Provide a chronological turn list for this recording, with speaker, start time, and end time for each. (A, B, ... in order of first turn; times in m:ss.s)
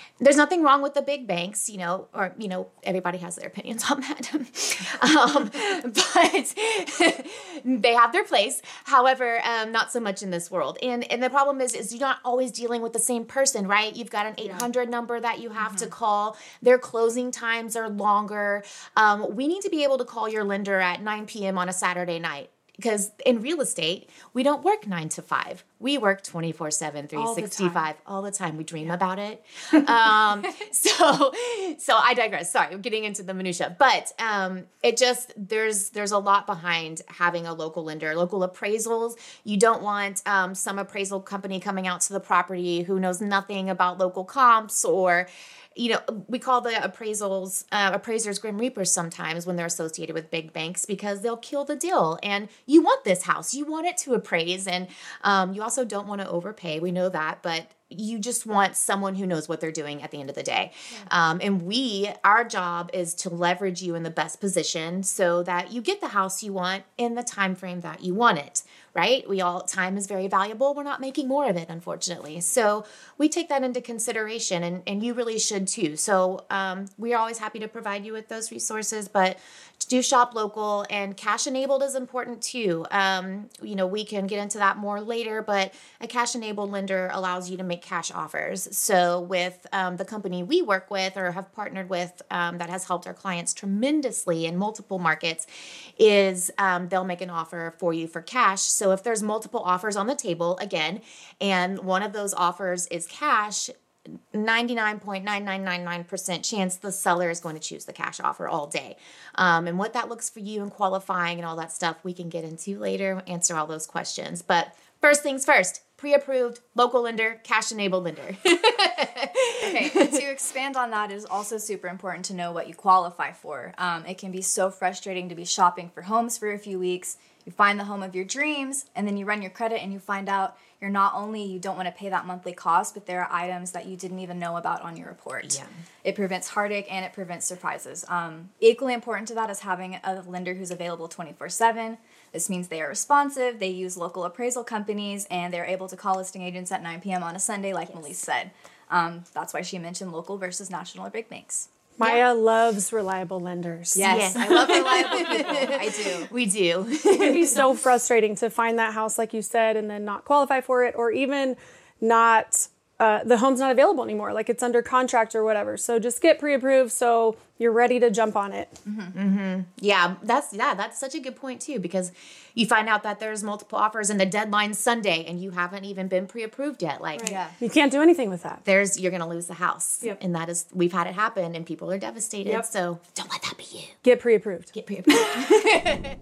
0:00.2-1:43.7 A
0:15.6-0:15.9 B
0:27.1-0:27.8 C
1:44.3-2:00.2 A
1:59.6-2:31.7 B
2:15.4-2:15.7 A
2:32.0-2:35.2 C
2:33.9-2:36.3 B
2:34.0-2:37.8 A
2:37.2-2:48.7 C
2:48.8-2:49.1 B
2:49.1-2:57.4 A
2:57.2-2:58.6 C
2:57.2-2:57.6 B
2:58.6-3:04.0 A
3:04.0-3:04.7 C
3:04.8-3:05.2 A
3:05.0-3:06.0 B